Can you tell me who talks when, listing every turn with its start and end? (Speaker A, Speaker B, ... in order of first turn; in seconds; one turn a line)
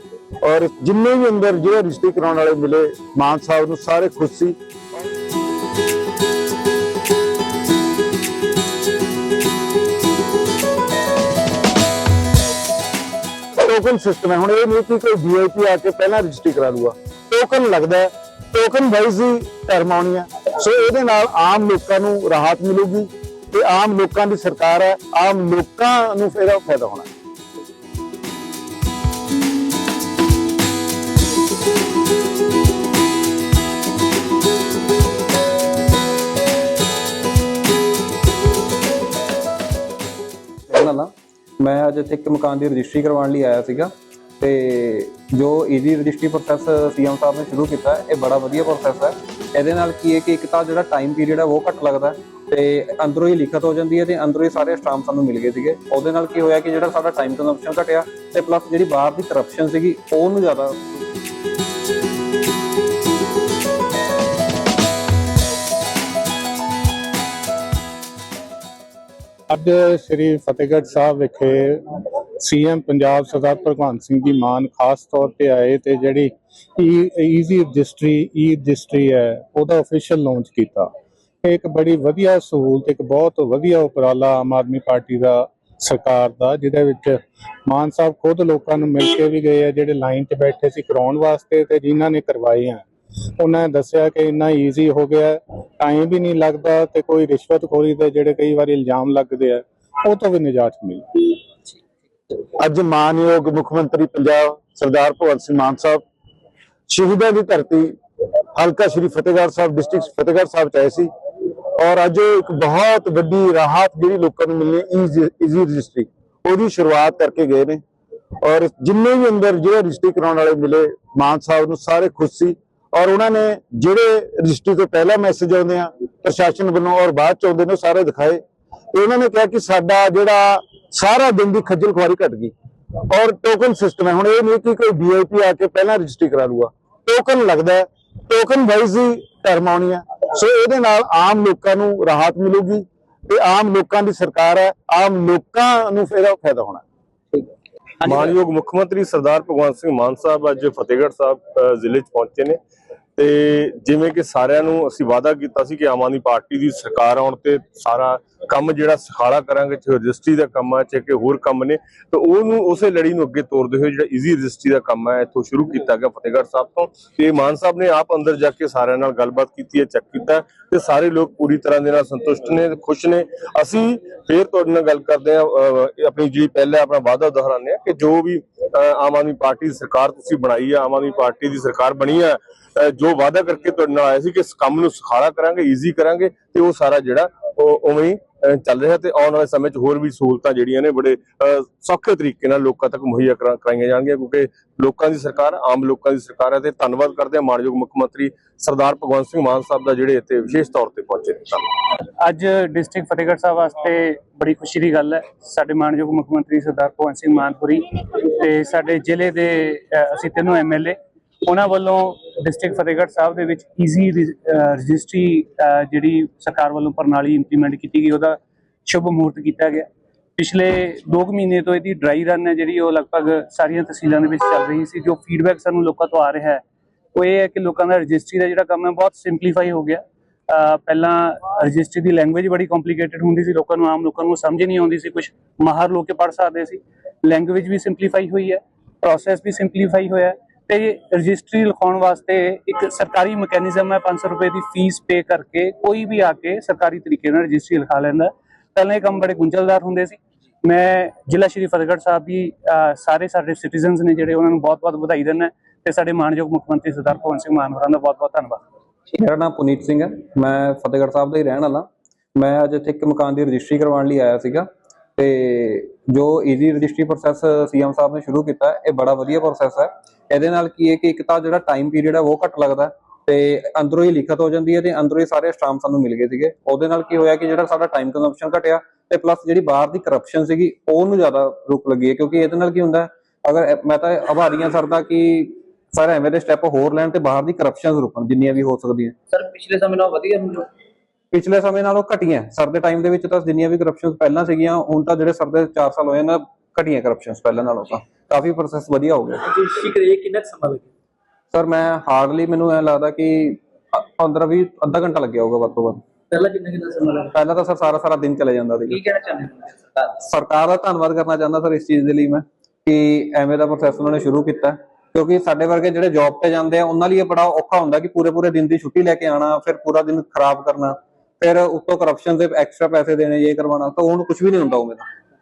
Speaker A: 0.4-4.6
Speaker A: 13.6-27.1
Speaker B: 40.7-61.0
Speaker C: 69.5-71.8
Speaker C: 72.4-80.9
Speaker C: 81.4-92.8
Speaker C: 93.4-101.3
Speaker A: 102.6-106.0
Speaker A: 106.9-107.9
Speaker A: 108.5-111.1
Speaker A: 111.8-117.8
Speaker A: 118.4-128.4
Speaker A: 128.9-132.5
Speaker A: 133.1-146.8
Speaker D: 148.0-152.6
Speaker D: 153.2-201.7
Speaker E: 202.1-226.6
Speaker E: 227.2-258.6
Speaker B: 259.1-289.2
Speaker F: 289.3-290.7
Speaker B: 291.3-299.4
Speaker F: 299.5-300.9
Speaker B: 301.5-306.1
Speaker F: 306.3-307.4
Speaker B: 307.3-309.0
Speaker F: 308.9-310.1
Speaker B: 310.2-325.1